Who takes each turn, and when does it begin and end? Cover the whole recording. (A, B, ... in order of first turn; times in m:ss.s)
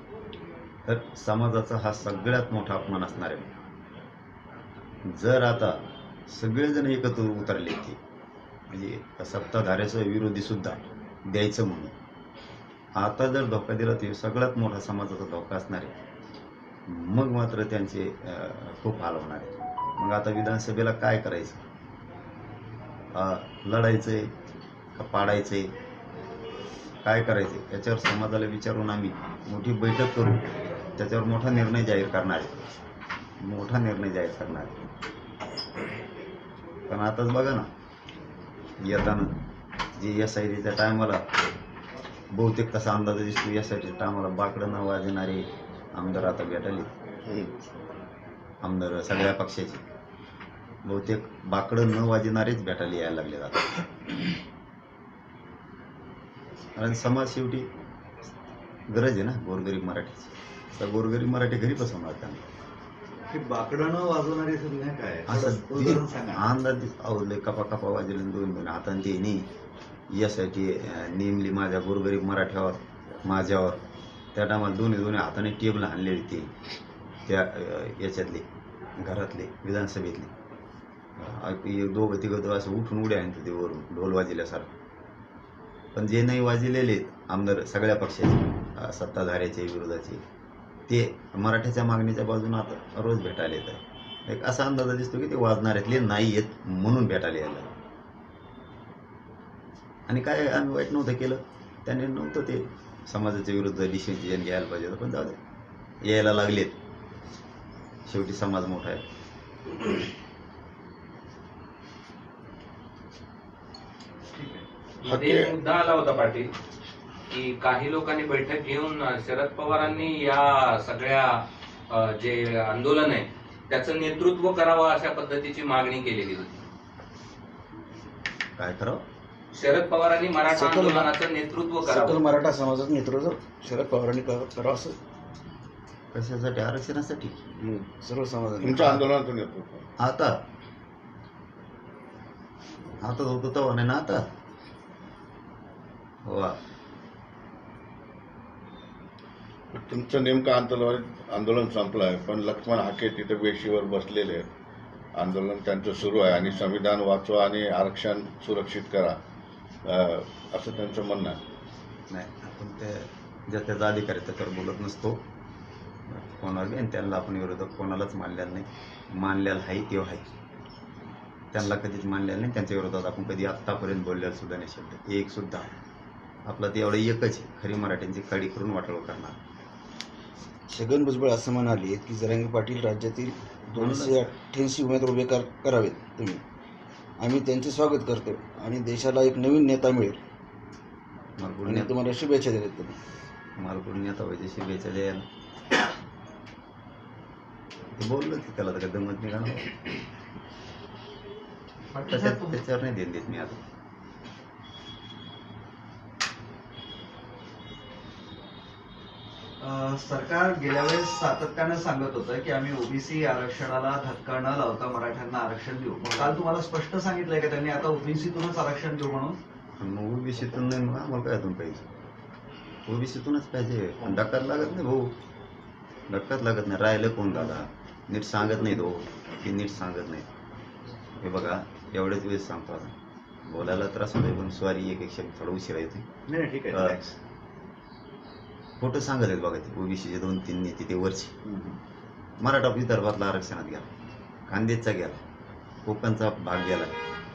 0:00.9-0:03.5 A
0:05.1-0:05.8 A
0:06.3-0:08.0 A
0:08.7-0:11.9 A
0:13.0-0:16.0 A
0:16.9-0:21.6 A
0:23.1-0:24.3 A
0:25.0-0:25.7 A
0:27.0-0:32.7 A
0:33.4-0:34.9 A
0:36.9-0:37.7 A
0:38.8-0:39.3 A
0:40.0-0:41.2 A
0:42.3-0:46.9 A
0:47.3-0:47.5 B
0:48.6-0:49.8 A
0:50.8-0:53.6 A
0:56.8-0:57.7 A
0:58.9-1:02.4 A
1:03.3-1:06.4 C
1:05.3-1:09.5 A
1:10.1-1:13.8 A
1:14.3-1:16.5 A
1:17.3-1:18.4 A
1:19.0-1:20.3 A
1:21.2-1:24.7 A
1:26.0-1:30.2 A
1:30.9-1:37.7 A
1:40.1-1:45.4 A
1:46.0-1:46.8 A
1:48.1-1:49.0 A
1:54.4-1:54.6 C
1:55.0-1:56.5 D
1:55.0-1:55.5 B
1:57.3-2:06.6 D
2:08.6-2:09.0 A
2:09.5-2:12.4 D
2:10.5-2:11.1 E
2:11.8-2:15.0 E
2:16.1-2:17.4 A
2:17.7-2:19.0 E
2:18.6-2:19.9 B
2:20.0-2:20.3 A
2:23.0-2:24.2 A
2:26.2-2:26.6 A
2:29.7-2:34.5 B
2:35.2-2:39.2 B
2:39.8-2:41.4 B
2:42.1-2:45.2 A
2:46.1-2:50.3 A
2:51.5-2:55.7 A
2:56.5-2:59.4 A
3:00.7-3:06.4 E
3:03.7-3:04.3 A
3:07.2-3:10.2 E
3:11.4-3:11.9 A
3:11.7-3:13.0 E
3:13.6-3:15.2 A
3:18.0-3:19.7 A
3:21.9-3:22.6 C
3:22.1-3:23.6 A
3:29.6-3:39.4 C
3:39.8-3:41.9 A
3:42.9-3:45.1 A
3:46.1-3:50.3 A
3:51.2-3:52.9 A
3:53.5-3:56.1 A
3:56.3-3:57.2 C
3:56.7-3:57.0 A
3:58.8-4:01.3 A
4:01.5-4:01.8 C
4:02.4-4:03.9 A
4:04.5-4:05.2 A
4:05.9-4:07.0 A